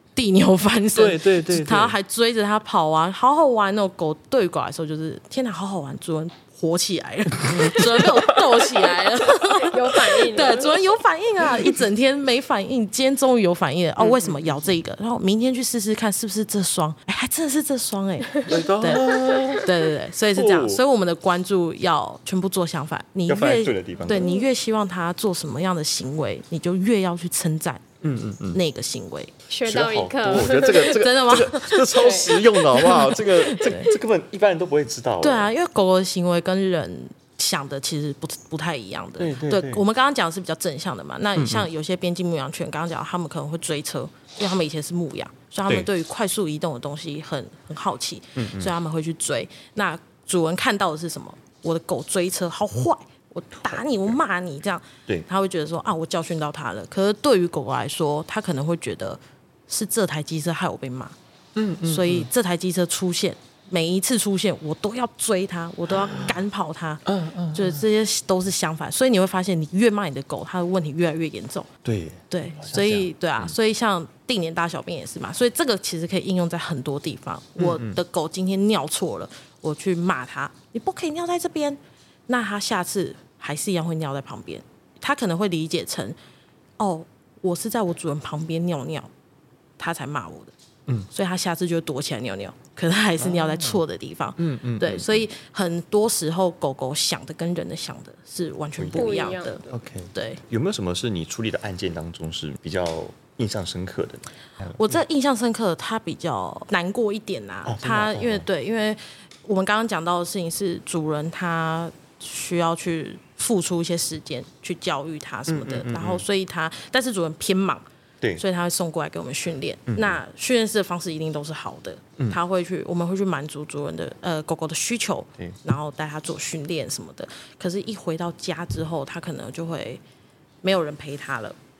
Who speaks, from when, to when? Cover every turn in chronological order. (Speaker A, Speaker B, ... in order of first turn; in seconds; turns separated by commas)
Speaker A: 0.1-27.8, Speaker B: 1.0-2.0, Speaker B: 7.5-8.8, Speaker C: 9.6-10.9, Speaker B: 14.0-14.6, Speaker B: 18.4-20.8, Speaker C: 19.1-19.5, Speaker B: 23.3-24.4, Speaker B: 28.0-28.6, Speaker A: 28.5-29.3, Speaker C: 29.5-31.0, Speaker B: 29.6-35.5, Speaker A: 30.4-33.9, Speaker C: 31.9-32.5, Speaker A: 35.2-61.1, Speaker B: 39.2-39.8, Speaker B: 41.4-41.7, Speaker B: 48.4-48.7, Speaker B: 61.6-62.3, Speaker A: 61.8-71.7, Speaker B: 66.0-66.4, Speaker B: 67.1-67.8, Speaker B: 71.8-73.5, Speaker A: 72.3-86.2, Speaker B: 77.6-78.0, Speaker A: 86.8-89.1, Speaker A: 89.8-90.5, Speaker A: 91.1-100.4, Speaker B: 93.2-93.8, Speaker B: 94.4-95.2, Speaker B: 98.8-104.9, Speaker C: 99.0-99.7, Speaker A: 104.8-117.8, Speaker B: 107.7-108.5, Speaker B: 115.5-116.2, Speaker A: 118.4-130.0, Speaker B: 119.9-120.2, Speaker A: 130.6-131.6